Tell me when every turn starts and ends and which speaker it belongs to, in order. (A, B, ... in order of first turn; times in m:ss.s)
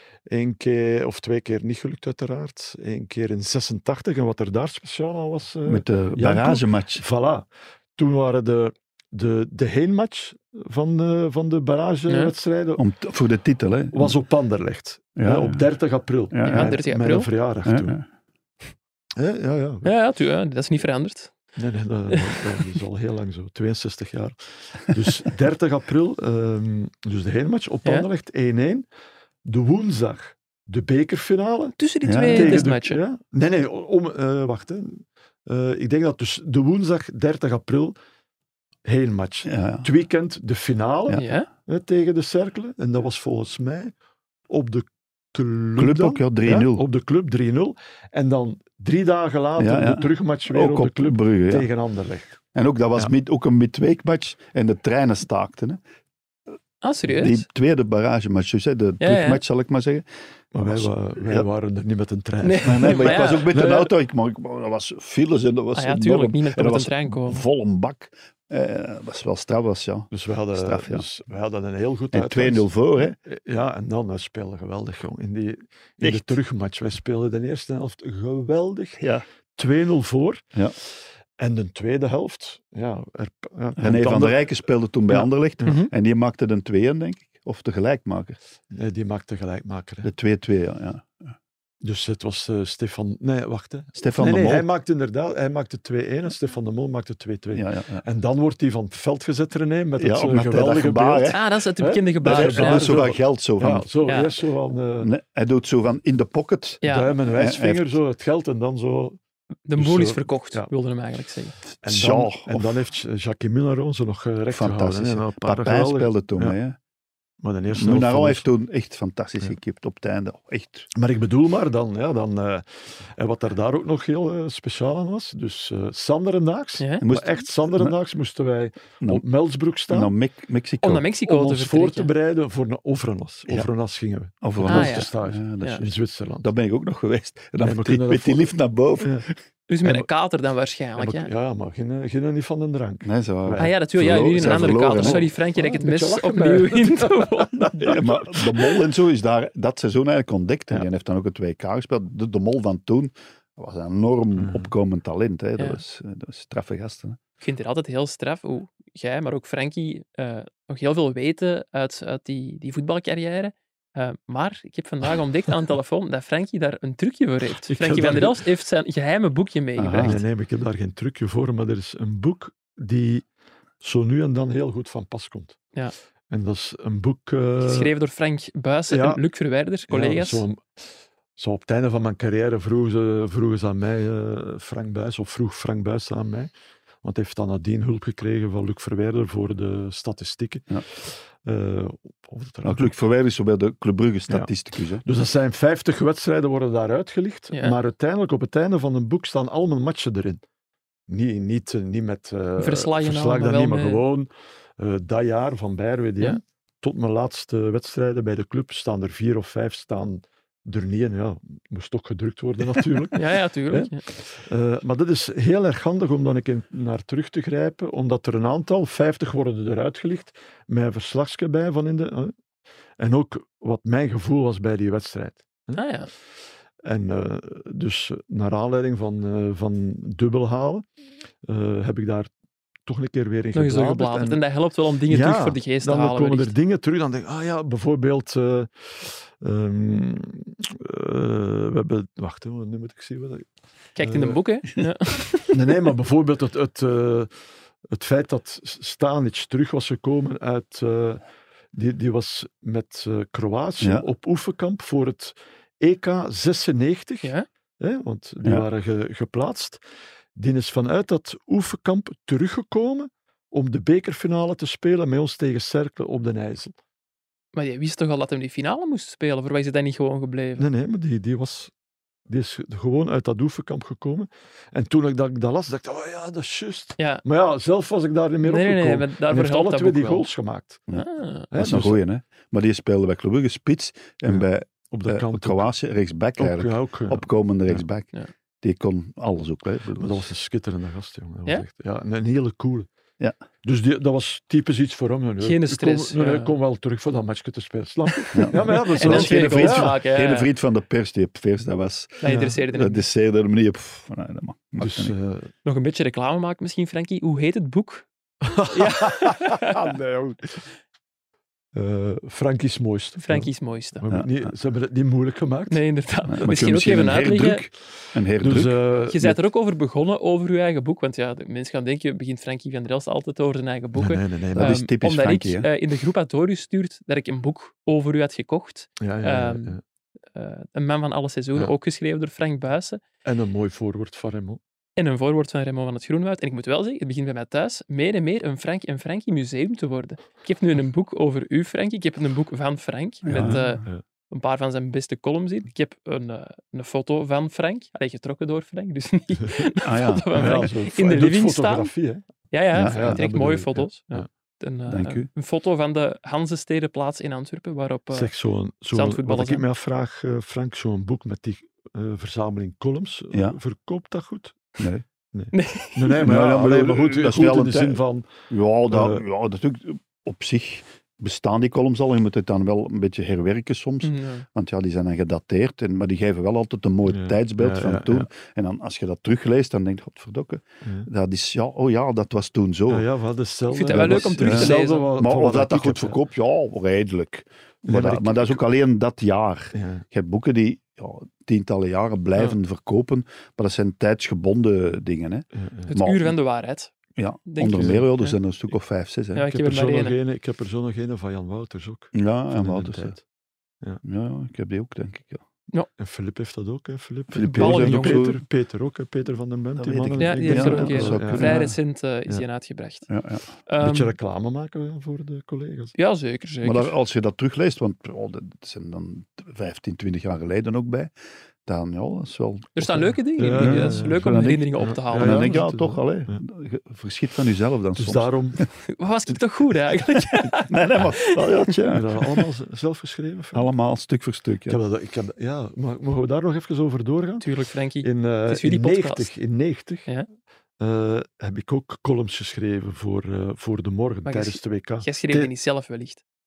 0:00.3-0:12.8 A
0:05.6-0:07.0 B
0:12.8-0:14.2 B
0:13.9-0:18.0 A
0:15.2-0:15.6 B
0:16.3-0:16.7 B
0:16.4-0:17.3 C
0:17.6-0:18.0 B
0:19.2-0:19.9 A
0:19.8-0:21.3 C
0:21.6-0:28.8 A
0:22.1-0:22.4 C
0:29.4-0:38.0 A
0:31.8-0:33.0 C
0:32.0-0:32.6 B
0:38.8-0:43.9 A
0:39.4-0:39.9 B
0:41.1-0:41.5 C
0:44.5-0:52.4 A
0:45.8-0:46.8 B
0:49.6-0:51.7 B
0:52.5-0:55.8 B
0:56.8-0:57.4 C
0:57.2-1:01.5 B
0:59.0-0:59.4 C
1:00.5-1:03.8 A
1:02.4-1:03.9 C
1:02.6-1:11.0 B
1:05.7-1:07.4 C
1:10.1-1:19.0 A
1:12.1-1:13.2 B
1:16.0-1:16.3 B
1:19.0-1:19.2 B
1:19.6-1:20.4 A
1:21.4-1:25.8 A
1:23.8-1:28.4 B
1:25.6-1:25.9 C
1:28.7-1:30.1 A
1:30.0-1:31.3 B
1:31.8-1:45.1 A
1:34.0-1:34.6 B
1:37.5-1:38.0 B
1:40.0-1:41.4 B
1:41.3-1:43.0 C
1:42.2-1:43.9 B
1:44.1-1:44.3 C
1:45.0-1:48.0 B
1:46.8-1:47.1 C
1:46.8-1:49.2 A
1:49.7-1:51.6 C
1:49.8-1:50.7 A
1:51.8-1:52.8 B
1:51.8-1:56.6 A
1:54.5-1:56.8 B
1:57.4-1:58.4 A
1:57.7-2:00.9 B
2:00.9-2:10.1 A
2:06.8-2:07.0 C
2:07.0-2:07.9 B
2:09.9-2:11.0 B
2:10.8-2:12.1 C
2:11.2-2:16.5 A
2:14.4-2:15.9 B
2:14.6-2:15.1 C
2:16.4-2:19.3 B
2:17.6-2:19.2 A
2:19.7-2:21.3 C
2:21.0-2:28.2 A
2:23.0-2:25.2 B
2:23.6-2:28.0 C
2:27.8-2:37.2 B
2:34.4-2:34.7 A
2:37.4-2:50.2 C
2:47.7-2:48.4 A
2:49.8-2:50.2 B
2:50.0-2:53.2 A
2:53.8-2:55.6 A
2:56.3-2:57.9 A
2:57.6-3:00.4 C
2:58.9-2:59.2 A
2:59.9-3:06.5 A
3:07.0-3:12.9 A
3:12.6-3:15.0 B
3:14.3-3:20.4 A
3:21.1-3:42.3 A
3:22.6-3:24.0 C
3:33.1-3:34.0 C
3:43.0-3:45.8 A
3:45.7-3:46.1 C
3:46.8-3:50.8 A
3:51.4-3:52.3 A
3:52.8-3:54.4 A
3:53.5-3:56.5 C
3:55.1-4:03.5 A
4:04.0-4:05.5 C
4:04.0-4:04.4 A
4:05.5-4:07.3 A
4:07.9-4:11.2 A
4:11.7-4:19.8 A
4:13.8-4:14.0 B
4:20.4-4:26.7 A
4:27.5-4:30.6 C
4:30.6-4:31.7 A
4:32.3-4:40.8 A
4:38.4-4:40.3 C
4:40.9-4:48.1 B
4:40.9-4:41.5 C
4:41.5-4:42.0 A
4:44.3-4:45.7 A
4:46.4-4:47.8 A
4:48.6-4:50.2 B
4:50.0-4:52.9 A
4:53.6-4:59.9 A
4:55.4-4:56.5 C
4:58.2-5:00.5 C
4:58.3-5:05.1 B
5:02.2-5:03.0 C
5:02.2-5:02.6 A
5:04.8-5:05.5 A
5:05.6-5:08.1 C
5:08.4-5:10.6 A
5:08.7-5:09.9 C
5:11.7-5:15.8 A
5:13.2-5:14.0 C
5:15.7-5:17.6 C
5:16.3-5:18.8 B
5:18.4-5:19.4 A
5:19.1-5:29.8 C
5:24.0-5:24.8 A
5:24.5-5:25.7 B
5:29.0-5:29.8 A
5:30.3-5:33.0 C
5:33.2-5:34.6 A
5:35.0-5:51.9 C
5:43.2-5:43.8 B
5:43.3-5:44.0 A
5:49.8-5:50.6 B
5:50.3-5:52.2 A
5:52.5-5:58.3 C
5:52.7-5:53.2 B
5:52.8-5:54.2 A
5:54.9-5:55.3 B
5:58.1-6:04.8 A
5:58.9-5:59.6 C
6:04.8-6:05.0 B
6:05.3-6:08.3 A
6:05.5-6:06.2 C
6:06.2-6:23.1 B
6:08.9-6:09.2 A
6:14.0-6:14.4 C
6:17.1-6:18.3 A
6:22.9-6:26.2 A
6:23.7-6:25.1 C
6:23.9-6:36.3 B
6:27.8-6:28.6 A
6:29.7-6:30.0 A
6:35.5-6:35.9 A
6:35.9-6:36.9 C
6:37.2-6:39.4 B
6:37.5-6:38.4 C
6:37.7-6:38.1 A
6:39.3-6:40.2 C
6:39.5-6:43.2 A
6:42.1-6:43.2 B
6:44.0-6:45.4 B
6:46.0-6:51.7 A
6:47.3-6:48.4 B
6:47.5-6:48.3 C
6:49.8-6:51.7 B
6:50.2-6:53.1 C
6:53.1-6:53.4 B
6:53.6-6:54.1 C
6:53.8-6:55.9 A
6:56.0-6:56.9 C
6:56.6-7:01.1 B
7:01.6-7:08.3 B
7:02.8-7:05.6 C
7:03.4-7:06.4 A
7:08.0-7:08.6 A
7:08.9-7:11.7 C
7:10.4-7:12.1 B
7:11.9-7:13.7 A
7:13.5-7:14.8 B
7:14.7-7:17.5 A
7:17.4-7:19.3 C
7:18.0-7:20.1 A
7:20.8-7:25.5 A
7:24.2-7:26.2 C